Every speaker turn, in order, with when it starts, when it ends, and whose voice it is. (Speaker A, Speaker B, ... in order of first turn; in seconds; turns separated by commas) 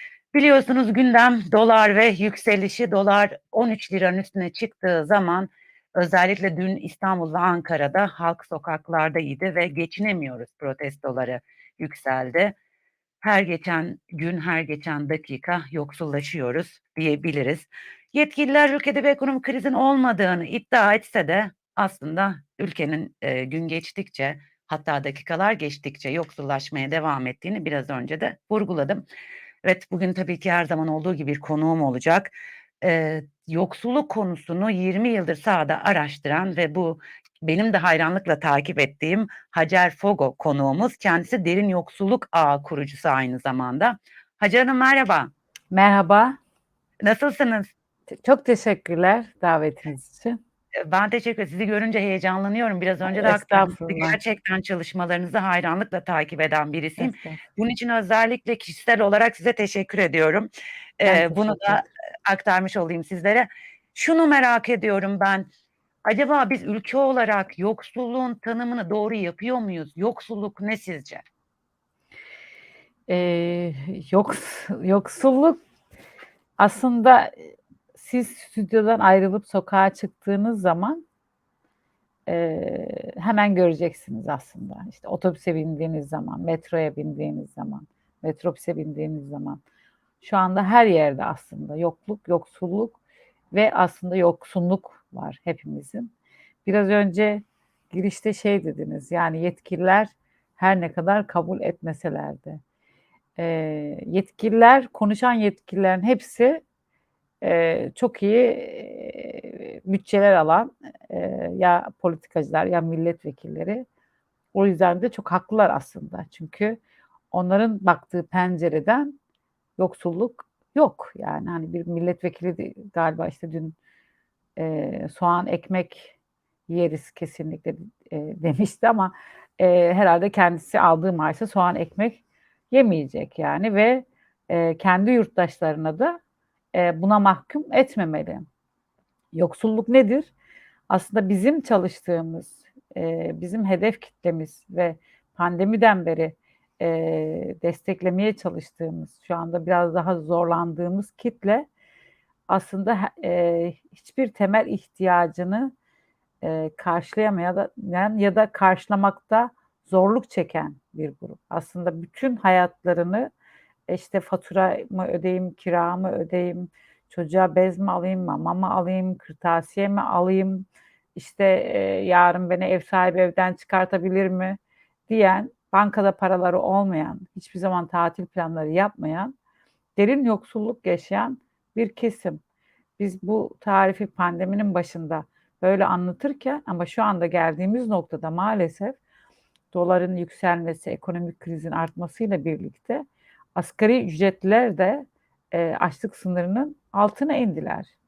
Speaker A: 0.3-12.6, Speaker A: 13.2-29.0, Speaker A: 29.6-45.3, Speaker B: 45.7-46.4, Speaker A: 47.0-47.7, Speaker B: 48.2-50.4, Speaker A: 50.9-60.5, Speaker B: 53.0-54.2, Speaker B: 57.0-57.4, Speaker A: 61.0-65.5, Speaker B: 61.0-61.9, Speaker A: 66.1-71.2, Speaker B: 73.1-75.6, Speaker B: 76.6-81.0, Speaker B: 82.3-89.6, Speaker B: 90.2-93.0, Speaker B: 93.5-96.1, Speaker B: 96.7-102.6, Speaker B: 103.4-106.6, Speaker B: 107.4-113.8, Speaker B: 114.5-116.8, Speaker B: 117.3-119.2, Speaker B: 119.8-123.8, Speaker B: 124.6-126.2, Speaker B: 126.7-136.2, Speaker B: 136.7-138.5, Speaker B: 139.3-140.3, Speaker B: 140.9-151.7, Speaker B: 152.5-155.7, Speaker B: 156.4-163.3, Speaker B: 163.9-174.6, Speaker B: 175.1-179.3, Speaker B: 180.0-182.4, Speaker B: 183.0-189.0, Speaker B: 189.7-193.0, Speaker B: 193.6-197.9